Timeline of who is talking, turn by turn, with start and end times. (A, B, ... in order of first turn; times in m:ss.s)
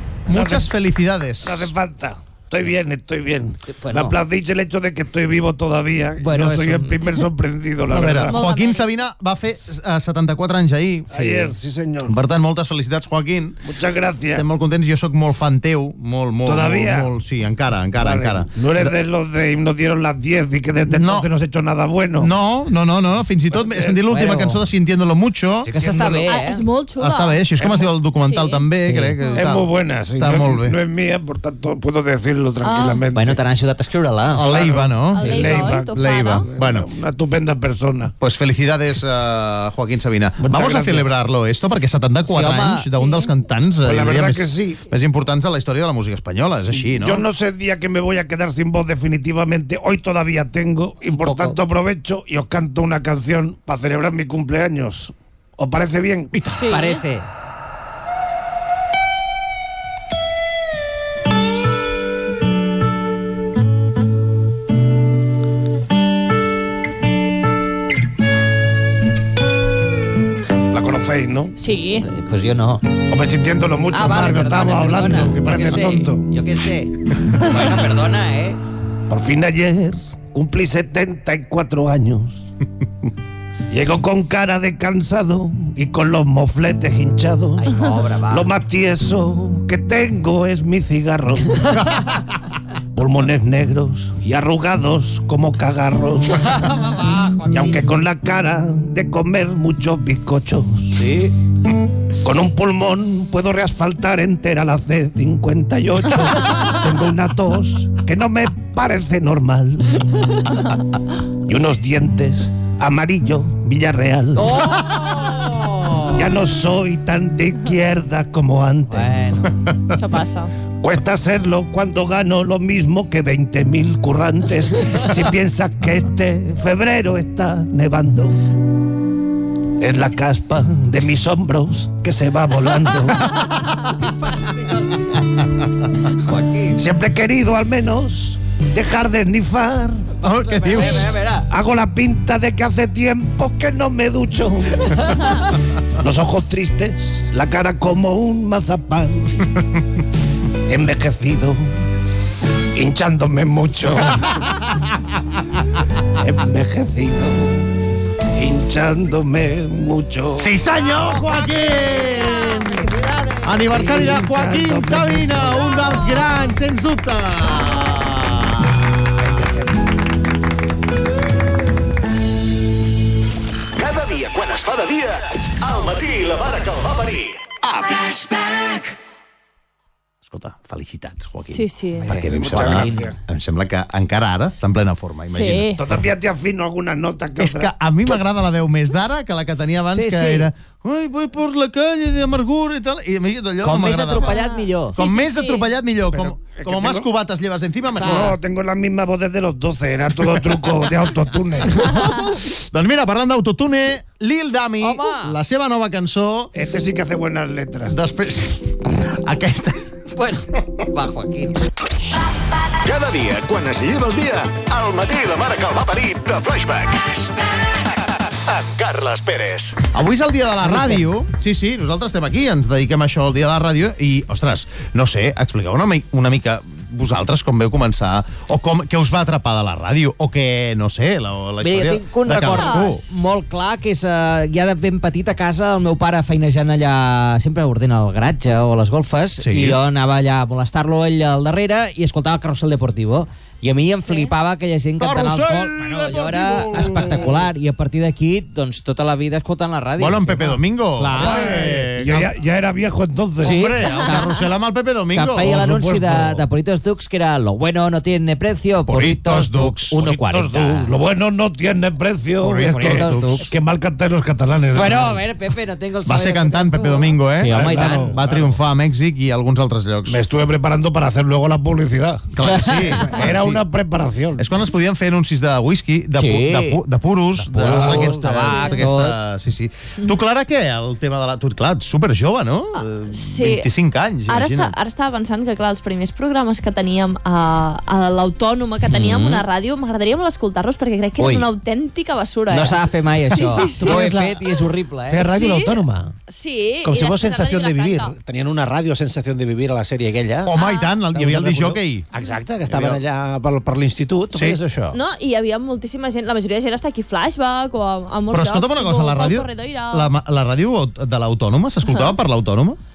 0:00.3-0:00.7 A
0:00.3-0:01.7 B
0:01.4-0:08.4 A
0:03.7-0:04.2 C
0:06.2-0:07.2 C
0:07.9-0:11.5 B
0:08.3-0:08.9 D
0:11.1-0:12.2 A
0:12.1-0:13.6 B
0:13.6-0:14.4 A
0:14.3-0:18.9 B
0:16.4-0:17.1 A
0:18.0-0:22.3 A
0:20.9-0:21.3 B
0:22.2-0:25.7 B
0:23.5-0:24.3 A
0:24.1-0:24.6 C
0:25.6-0:26.6 C
0:25.7-0:26.3 A
0:26.3-0:27.4 D
0:27.0-0:30.8 B
0:27.6-0:27.9 A
0:28.2-0:28.6 D
0:28.8-0:29.2 C
0:29.3-0:33.4 A
0:32.6-0:33.0 D
0:33.1-0:34.5 C
0:34.3-0:36.9 B
0:34.4-0:38.1 A
0:35.1-0:36.5 D
0:38.2-0:47.2 B
0:40.4-0:41.1 A
0:42.2-0:42.9 C
0:43.0-0:43.2 D
0:43.8-0:44.8 A
0:46.7-0:56.4 A
0:51.1-0:51.6 C
0:56.6-0:57.3 C
0:56.6-0:57.0 D
1:10.7-1:11.5 A
1:11.6-1:12.0 D
1:12.0-1:12.8 C
1:13.1-1:16.4 A
1:13.9-1:18.6 C
1:19.1-1:22.4 A
1:23.7-1:31.8 A
1:27.6-1:28.5 C
1:32.9-1:36.6 A
1:36.4-1:37.8 C
1:37.5-1:41.0 A
1:41.0-1:41.3 C
1:42.2-1:50.1 A
1:51.4-1:54.7 A
1:54.4-1:56.3 C
1:56.0-1:59.2 A
1:58.9-1:59.5 C
1:59.9-2:00.5 D
2:00.8-2:08.4 A
2:09.8-2:13.3 A
2:13.5-2:15.2 C
2:16.1-2:16.8 C
2:16.7-2:20.1 A
2:20.2-2:21.5 C
2:20.2-2:21.1 B
2:20.8-2:25.3 A
2:25.0-2:25.4 C
2:26.0-2:29.5 A
2:30.7-2:31.6 A
2:32.7-2:34.4 A
2:36.2-2:37.6 A
2:38.3-2:40.6 A
2:40.4-2:42.8 B
2:40.7-2:44.1 C
2:43.4-2:48.9 B
2:43.7-2:45.8 A
2:53.8-2:58.8 E
3:00.2-3:06.0 B
3:01.4-3:02.1 D
3:02.0-3:03.2 A
3:02.5-3:02.9 C
3:05.3-3:05.8 D
3:05.8-3:07.7 A
3:07.4-3:14.4 B
3:09.9-3:10.5 C
3:13.6-3:15.0 C
3:14.2-3:15.7 D
3:14.9-3:18.4 B
3:16.1-3:17.1 A
3:18.0-3:22.2 A
3:18.0-3:18.3 C
3:21.9-3:22.2 D
3:22.3-3:26.5 B
3:24.8-3:25.3 C
3:26.5-3:28.0 A
3:27.9-3:29.9 B
3:30.1-3:31.6 C
3:32.8-3:37.3 E
3:38.5-3:39.8 E
3:39.9-3:53.0 B
3:40.6-3:41.0 C
3:51.6-4:11.7 C
3:52.4-3:53.0 D
3:59.4-3:59.8 B
4:04.0-4:04.3 D
4:05.0-4:07.3 B
4:10.0-4:12.3 B
4:11.1-4:13.7 A
4:13.4-4:14.4 C
4:13.4-4:15.7 B
4:13.9-4:14.2 D
4:15.1-4:20.9 C
4:15.6-4:16.2 F
4:18.9-4:20.0 B
4:20.0-4:25.2 A
4:22.4-4:23.5 B
4:22.5-4:23.5 C
4:24.7-4:28.2 C
4:26.0-4:30.2 B
4:27.5-4:28.4 A
4:30.1-4:32.3 A
4:32.4-4:33.6 B
4:32.4-4:33.2 C
4:33.1-4:34.5 A
4:34.4-4:44.7 B
4:36.2-4:36.8 C
4:37.5-4:39.2 C
4:37.6-4:38.1 F
4:37.7-4:38.1 A
4:38.5-4:38.8 D
4:42.8-4:43.7 D
4:44.3-4:54.0 D
4:48.8-4:49.4 C
4:51.2-4:51.4 C
4:52.5-4:55.3 C
4:53.7-4:54.5 F
4:55.1-4:56.1 F
4:55.2-4:58.1 D
4:56.8-5:00.5 F
5:00.4-5:02.1 B
5:00.6-5:01.0 D
5:01.1-5:05.0 F
5:02.7-5:03.0 B
5:04.3-5:04.6 B
5:04.9-5:10.1 D
5:08.3-5:12.8 B
5:11.8-5:12.2 D